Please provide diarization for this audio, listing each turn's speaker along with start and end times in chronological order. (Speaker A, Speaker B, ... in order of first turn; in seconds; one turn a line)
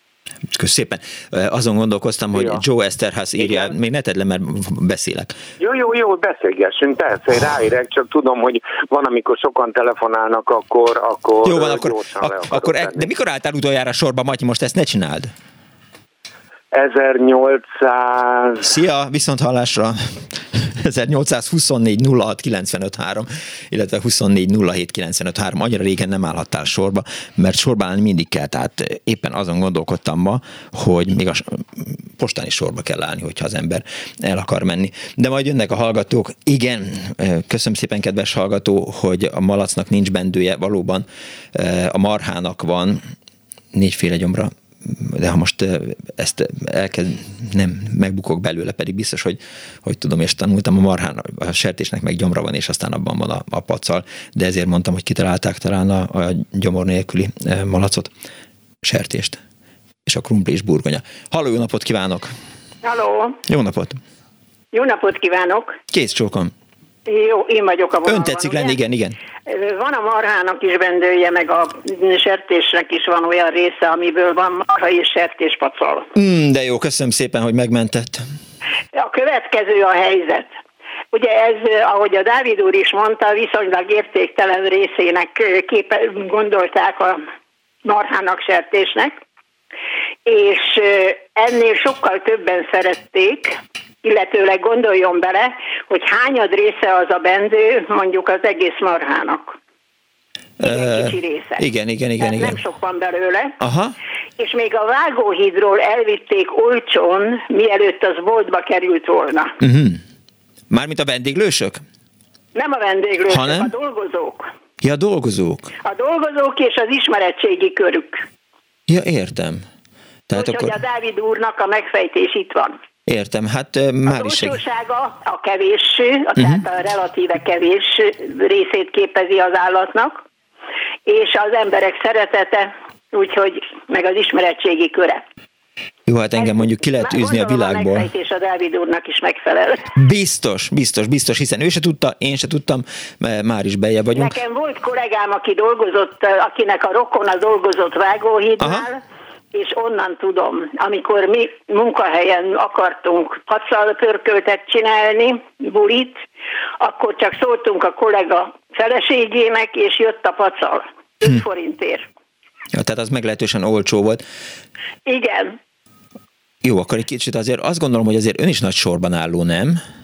Speaker A: 0.5-5.3
Speaker B: 2.3-2.6
Speaker B: 3.4-3.7
Speaker B: 5.6-13.1
Speaker A: 11.4-15.3
Speaker B: 16.7-18.7
Speaker A: 18.6-43.0
Speaker A: 43.7-58.1
Speaker A: 58.8-59.4
Speaker A: 60.1-62.3
Speaker C: 62.8-63.4
Speaker A: 63.5-64.0
Speaker C: 64.7-65.8
Speaker A: 65.9-66.5
Speaker C: 67.1-68.8
Speaker A: 68.0-69.2
Speaker C: 69.5-76.1
Speaker A: 76.2-78.2
Speaker C: 78.9-80.5
Speaker C: 81.1-87.2
Speaker C: 87.8-89.2
Speaker C: 90.3-99.6
Speaker A: 100.6-102.6
Speaker C: 100.7-101.6
Speaker C: 102.2-103.6
Speaker A: 103.6-104.0
Speaker C: 104.4-109.5
Speaker A: 109.6-110.0
Speaker A: 110.7-111.8
Speaker C: 112.5-114.5
Speaker A: 113.3-113.7
Speaker A: 114.8-115.7
Speaker C: 115.8-118.2
Speaker A: 118.9-119.6
Speaker A: 120.3-120.8
Speaker C: 120.3-122.7
Speaker A: 123.1-124.6
Speaker C: 124.1-130.2
Speaker A: 126.4-126.6
Speaker C: 131.1-135.2
Speaker A: 136.1-138.1
Speaker C: 136.4-139.9
Speaker A: 139.9-144.4
Speaker C: 144.2-149.0
Speaker A: 148.6-148.8
Speaker C: 149.5-156.2
Speaker C: 156.8-162.1
Speaker A: 162.7-164.2
Speaker C: 165.1-165.6
Speaker A: 166.6-169.8